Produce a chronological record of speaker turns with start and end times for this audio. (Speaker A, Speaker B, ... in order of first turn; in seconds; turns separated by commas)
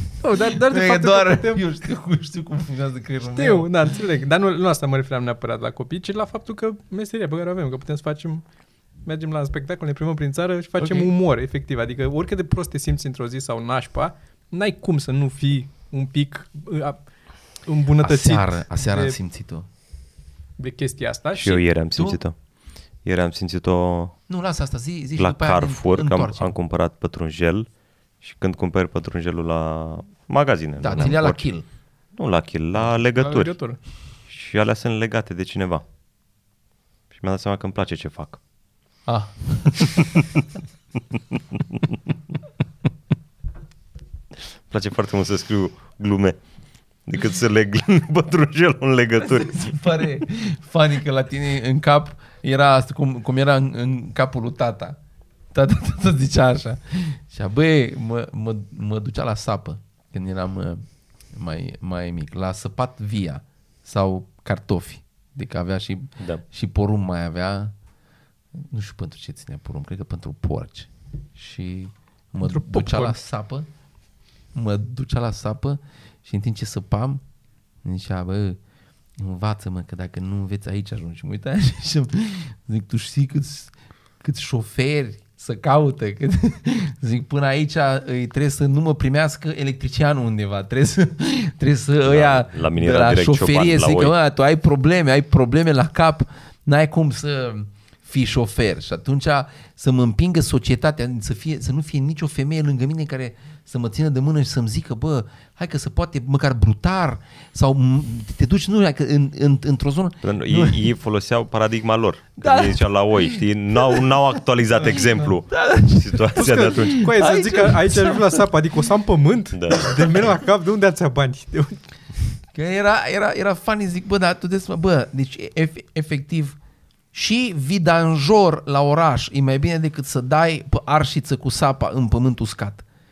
Speaker A: 0.2-1.6, Speaker B: 0.4-3.7, Speaker A: 3.3-8.4, Speaker A: 9.0-19.2, Speaker B: 10.8-11.1, Speaker B: 18.0-19.7, Speaker A: 20.6-21.6, Speaker C: 21.3-22.4, Speaker B: 21.9-22.2, Speaker C: 23.0-24.1, Speaker B: 24.3-26.6, Speaker C: 25.2-27.7, Speaker C: 28.2-31.4, Speaker B: 30.8-31.6, Speaker C: 32.2-33.5, Speaker A: 33.1-33.8, Speaker C: 34.3-35.8, Speaker C: 37.1-38.4, Speaker B: 39.1-40.0, Speaker C: 44.7-46.4, Speaker C: 47.1-49.7, Speaker B: 49.2-55.0, Speaker B: 55.5-67.7, Speaker B: 68.5-73.7, Speaker A: 72.4-73.2, Speaker B: 74.5-77.2, Speaker B: 77.8-78.6, Speaker B: 79.2-110.8, Speaker C: 92.0-94.1, Speaker C: 110.2-117.1, Speaker B: 112.4-114.0, Speaker B: 114.8-118.4, Speaker A: 116.4-121.8, Speaker C: 119.5-120.2, Speaker B: 122.5-126.6, Speaker B: 127.1-132.8